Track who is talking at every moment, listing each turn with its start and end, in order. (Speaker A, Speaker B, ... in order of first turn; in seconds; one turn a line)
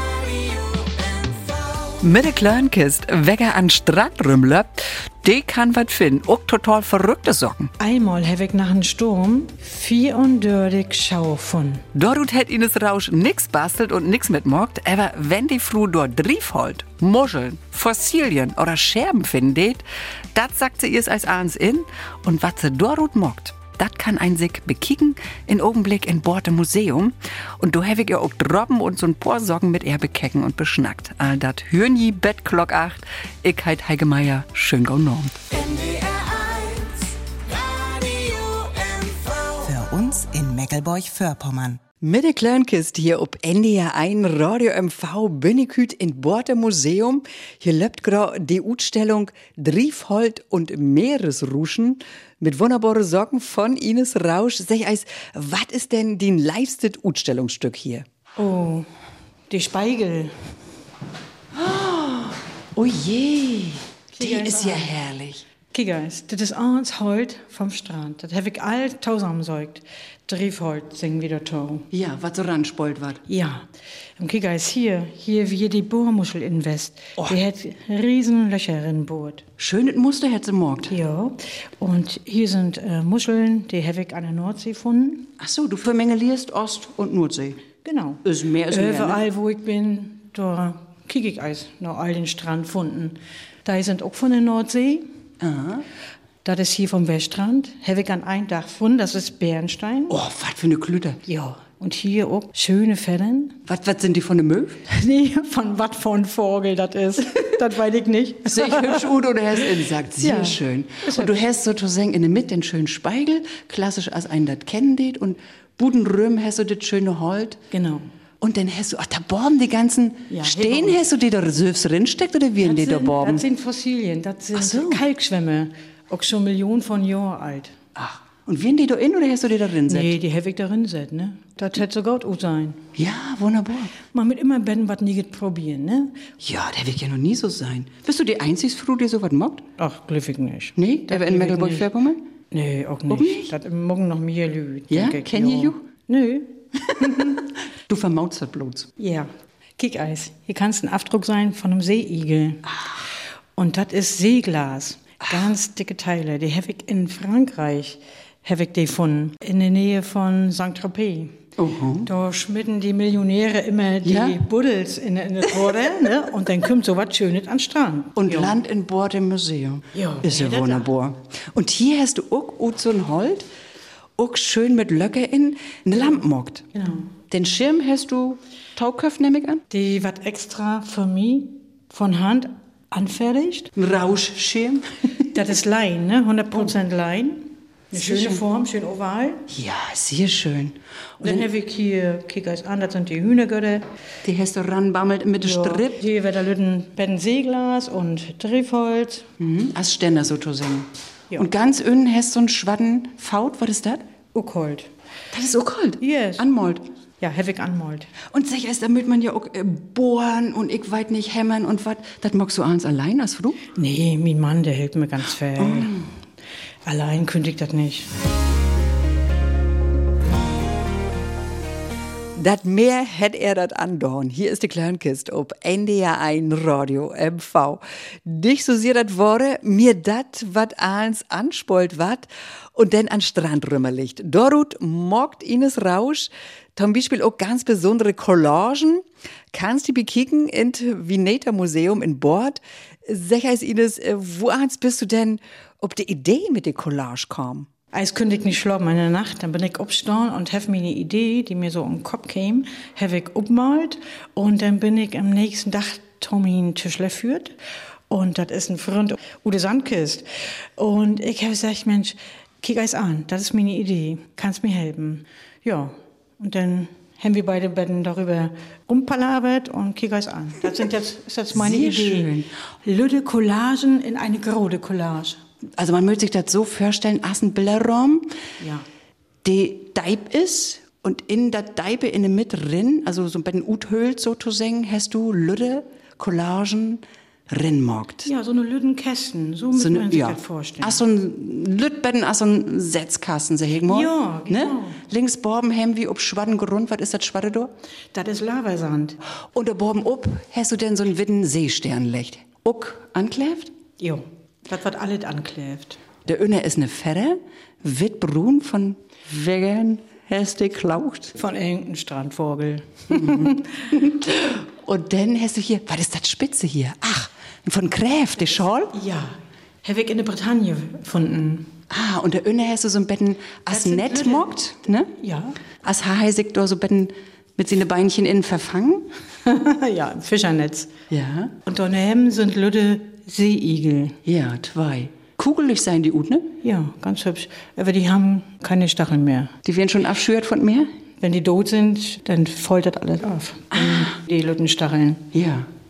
Speaker A: 2.0-7.7
Speaker B: 7.8-11.8
Speaker A: 11.9-19.8
Speaker A: 20.4-37.0
Speaker A: 37.8-39.4
Speaker C: 39.5-41.8
Speaker A: 42.0-58.0
Speaker B: 58.4-58.9
Speaker B: 59.5-60.3
Speaker A: 61.5-65.5
Speaker B: 64.1-64.9
Speaker B: 65.7-71.9
Speaker A: 71.9-73.2
Speaker B: 73.3-73.7
Speaker B: 74.2-79.5
Speaker A: 79.6-81.0
Speaker B: 80.9-85.3
Speaker A: 85.4-87.7
Speaker B: 87.8-95.0
Speaker A: 88.2-89.2
Speaker A: 95.4-95.8
Speaker B: 96.4-100.2
Speaker A: 100.1-101.2
Speaker B: 101.3-103.6
Speaker A: 103.7-104.8
Speaker B: 104.9-111.4
Speaker A: 108.5-117.6
Speaker B: 117.7-118.0
Speaker A: 118.4-123.5
Speaker B: 120.3-121.0
Speaker B: 122.6-127.8
Speaker A: 124.5-125.0
Speaker A: 128.0-130.2
Speaker B: 129.9-132.8
Speaker A: 132.9-133.9
Speaker B: 134.1-136.2
Speaker A: 136.4-139.6
Speaker B: 139.8-141.9
Speaker A: 140.8-142.2
Speaker B: 142.5-147.4
Speaker A: 143.1-143.5
Speaker A: 144.9-145.8
Speaker A: 147.0-148.9
Speaker B: 149.0-152.7
Speaker B: 153.6-161.4
Speaker A: 161.6-162.1
Speaker B: 162.1-168.6
Speaker A: 164.0-164.4
Speaker A: 168.2-173.5
Speaker B: 169.9-170.9
Speaker A: 174.2-176.6
Speaker B: 176.7-177.1
Speaker A: 177.3-179.6
Speaker B: 179.7-183.7
Speaker A: 183.8-185.0
Speaker B: 185.2-189.5
Speaker A: 187.9-188.4
Speaker A: 189.5-191.5
Speaker B: 191.2-193.8
Speaker A: 194.2-196.0
Speaker B: 195.4-199.3
Speaker A: 199.4-204.0
Speaker B: 204.3-204.9
Speaker A: 205.3-206.8
Speaker B: 206.0-206.5
Speaker B: 207.2-208.1
Speaker A: 208.3-213.6
Speaker B: 213.7-216.1
Speaker A: 215.6-216.1
Speaker B: 216.8-218.1
Speaker A: 222.4-247.7
Speaker B: 247.9-257.6
Speaker B: 258.1-260.2
Speaker B: 260.8-272.3
Speaker A: 271.5-272.5
Speaker B: 272.8-275.4
Speaker A: 275.8-278.4
Speaker B: 278.6-278.9
Speaker A: 279.4-288.3
Speaker B: 288.2-291.0
Speaker A: 289.7-297.7
Speaker B: 293.9-295.0
Speaker B: 298.1-299.2
Speaker A: 299.5-303.7
Speaker B: 304.0-306.0
Speaker A: 306.3-311.3
Speaker B: 311.4-313.9
Speaker A: 313.1-318.9
Speaker B: 318.9-321.7
Speaker A: 321.9-325.1
Speaker B: 323.7-324.5
Speaker B: 325.1-325.6
Speaker A: 325.8-329.1
Speaker B: 329.4-330.9
Speaker A: 331.1-331.6
Speaker B: 331.6-334.2
Speaker A: 334.2-336.5
Speaker B: 336.6-339.5
Speaker A: 339.6-340.9
Speaker B: 341.2-345.3
Speaker A: 343.7-344.1
Speaker A: 345.3-345.7